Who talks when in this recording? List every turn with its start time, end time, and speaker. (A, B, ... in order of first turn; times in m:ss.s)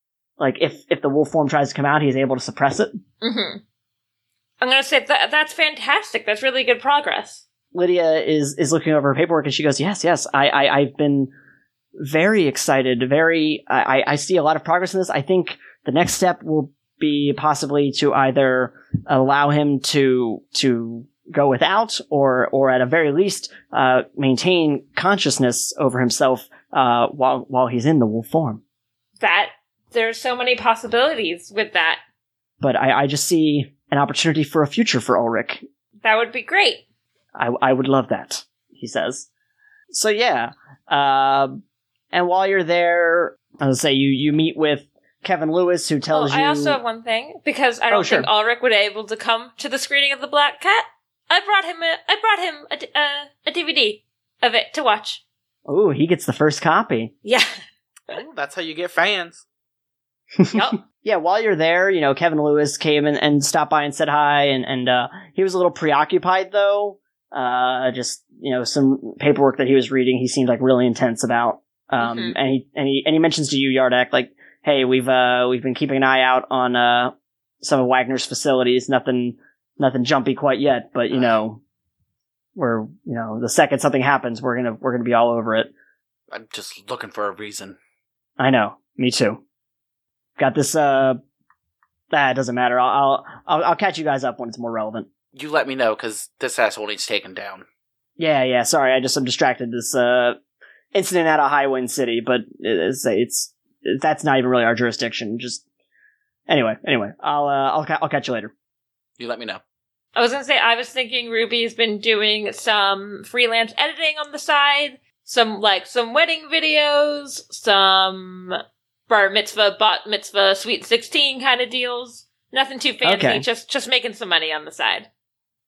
0:00.4-0:02.9 A
0:03.2-0:03.6 B
0:04.6-0:07.4 B
0:07.7-0:11.3 A
0:12.0-0:28.6 A
0:29.2-0:32.0 B
0:32.6-0:35.6 A
0:36.0-0:36.8 B
0:37.4-0:39.3 A
0:39.9-0:41.6 A
0:42.1-0:46.8 A
0:46.1-0:55.2 B
0:47.9-0:48.3 A
0:55.7-0:57.1 A
0:57.2-0:57.6 B
0:58.1-0:59.4 C
1:00.4-1:21.6 A
1:00.5-1:00.8 B
1:12.0-1:12.4 B
1:22.6-1:25.7 A
1:26.3-1:27.8 C
1:28.4-1:29.4 A
1:30.4-1:31.2 A
1:32.1-1:35.1 A
1:35.3-1:37.6 C
1:38.2-1:40.4 A
1:40.9-1:45.6 A
1:46.5-1:48.5 A
1:49.2-1:49.6 C
1:50.2-2:05.1 B
2:03.0-2:03.4 A